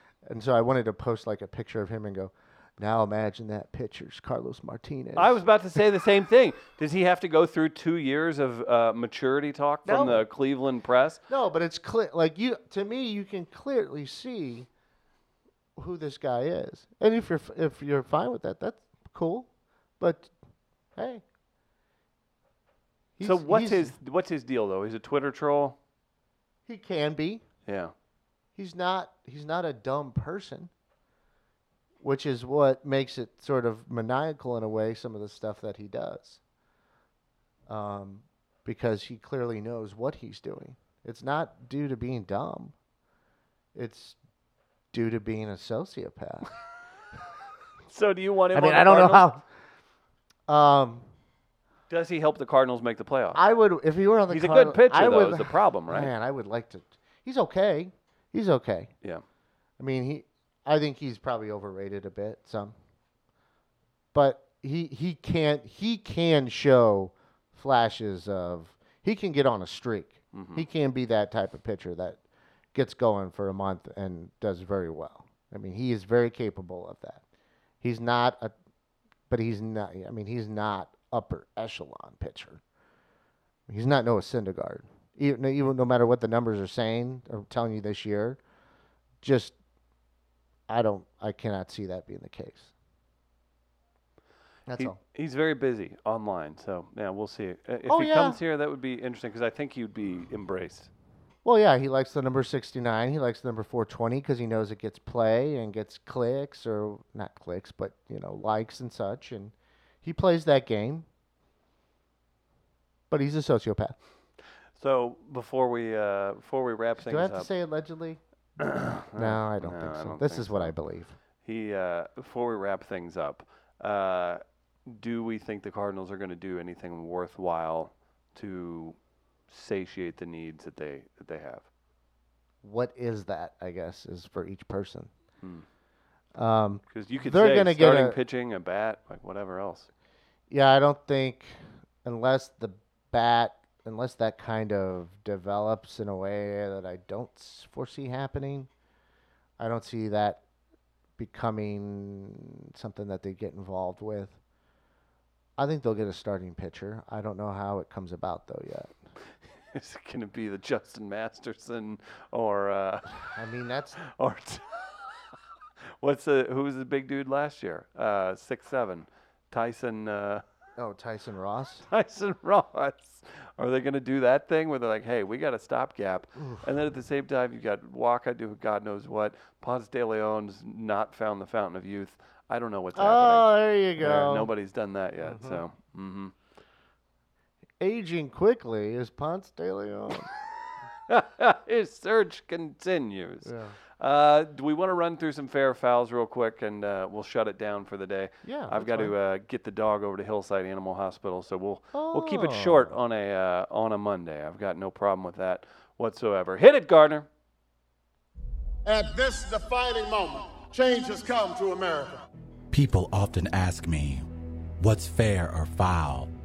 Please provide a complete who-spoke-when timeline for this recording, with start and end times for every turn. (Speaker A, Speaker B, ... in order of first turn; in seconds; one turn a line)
Speaker A: 0.2-5.4
Speaker B: 5.2-11.2
Speaker A: 9.8-10.2
Speaker A: 11.3-14.7
Speaker A: 15.8-19.5
Speaker A: 20.0-20.3
Speaker A: 20.9-21.2
Speaker A: 23.2-23.9
Speaker B: 23.2-25.8
Speaker A: 26.6-27.4
Speaker B: 27.6-27.9
Speaker A: 28.6-30.7
Speaker A: 32.0-36.4
Speaker A: 37.7-42.7
Speaker A: 43.7-44.2
Speaker A: 44.9-46.5
Speaker B: 47.9-49.3
Speaker A: 48.5-49.4
Speaker A: 50.5-51.1
Speaker B: 51.9-53.4
Speaker A: 53.3-58.9
Speaker B: 54.3-56.1
Speaker A: 59.8-62.7
Speaker A: 64.1-72.2
Speaker B: 70.3-70.7
Speaker A: 72.7-77.2
Speaker A: 77.8-78.5
Speaker A: 79.3-82.6
Speaker A: 83.7-88.4
Speaker A: 89.2-89.5
Speaker A: 90.7-92.7
Speaker A: 94.7-95.0
Speaker B: 94.8-100.9
Speaker A: 97.9-98.4
Speaker A: 101.4-111.1
Speaker A: 113.1-114.0
Speaker B: 114.8-117.5
Speaker A: 117.0-118.2
Speaker B: 118.6-120.7
Speaker A: 119.2-121.1
Speaker B: 121.4-129.0
Speaker B: 129.5-131.7
Speaker A: 132.6-135.1
Speaker A: 136.3-138.2
Speaker B: 136.9-139.9
Speaker A: 140.5-148.7
Speaker A: 149.6-150.4
Speaker A: 151.2-154.4
Speaker A: 155.6-158.9
Speaker B: 159.7-163.1
Speaker A: 163.3-164.0
Speaker B: 164.1-164.8
Speaker B: 166.0-170.4
Speaker A: 170.8-171.8
Speaker B: 171.9-186.3
Speaker A: 176.4-176.6
Speaker A: 182.9-184.5
Speaker A: 185.2-185.6
Speaker A: 187.8-190.3
Speaker B: 191.1-207.3
Speaker A: 193.4-193.7
Speaker A: 198.4-199.1
Speaker A: 201.9-202.9
Speaker C: 208.8-212.2
Speaker D: 212.7-214.2
Speaker D: 214.8-216.3